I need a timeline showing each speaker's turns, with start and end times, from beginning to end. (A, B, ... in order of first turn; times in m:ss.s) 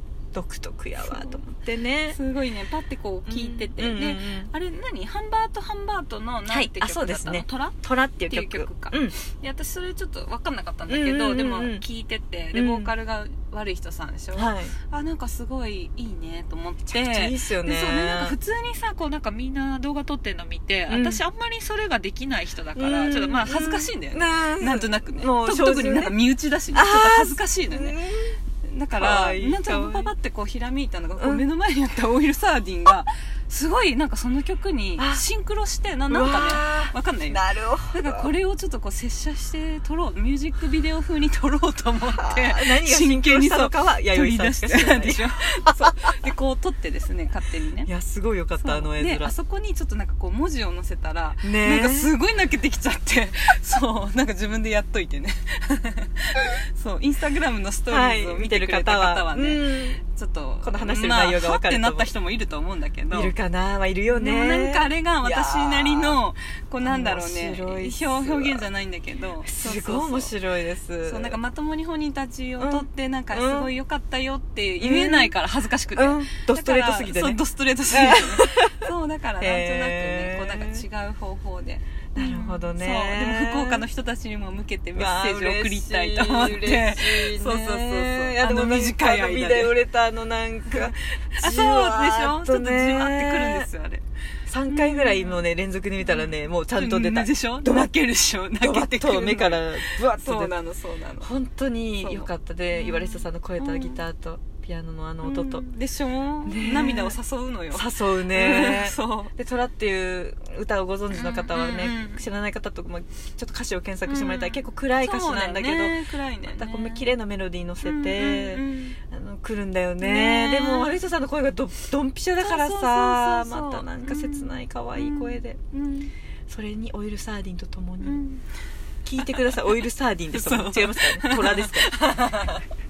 0:00.3-0:02.2 A
0:01.0-0:01.4 B
0:02.1-0:28.0 B
0:03.3-0:04.5 A
0:06.5-0:09.2 A
0:10.9-0:11.8 A
0:12.5-0:12.9 A
0:14.4-0:14.7 A
0:16.9-0:18.4 A
0:20.9-0:21.2 A
0:22.8-0:26.2 A
0:26.7-0:28.4 A
0:28.6-0:47.9 B
0:29.0-0:30.1 A
0:35.0-0:35.2 A
0:36.1-0:38.3 A
0:42.0-0:46.2 A
0:47.9-0:49.3 A
0:48.6-1:03.4 B
0:51.4-0:52.1 A
0:57.9-1:00.0 A
1:00.6-1:02.1 A
1:03.1-1:06.2 A
1:04.1-1:10.3 B
1:06.8-1:08.7 A
1:09.4-1:11.4 A
1:11.0-1:29.8 B
1:12.6-1:13.7 A
1:14.8-1:15.3 A
1:16.0-1:18.9 A
1:19.4-1:20.8 A
1:22.2-1:23.8 A
1:25.0-1:33.7 A
1:30.7-1:34.0 B
1:34.5-1:37.9 A
1:34.7-1:35.4 B
1:36.0-1:41.3 B
1:38.6-1:40.6 A
1:41.2-1:45.7 A
1:42.0-1:44.0 B
1:45.2-1:49.3 B
1:46.4-1:47.2 A
1:47.7-1:56.0 A
1:51.1-1:52.2 B
1:54.1-1:57.1 B
1:56.5-2:05.6 A
1:57.8-1:59.0 B
2:00.0-2:01.0 B
2:02.4-2:06.1 B
2:06.5-2:08.2 A
2:08.0-2:08.4 B
2:09.1-2:12.3 A
2:09.2-2:09.5 B
2:10.3-2:12.7 B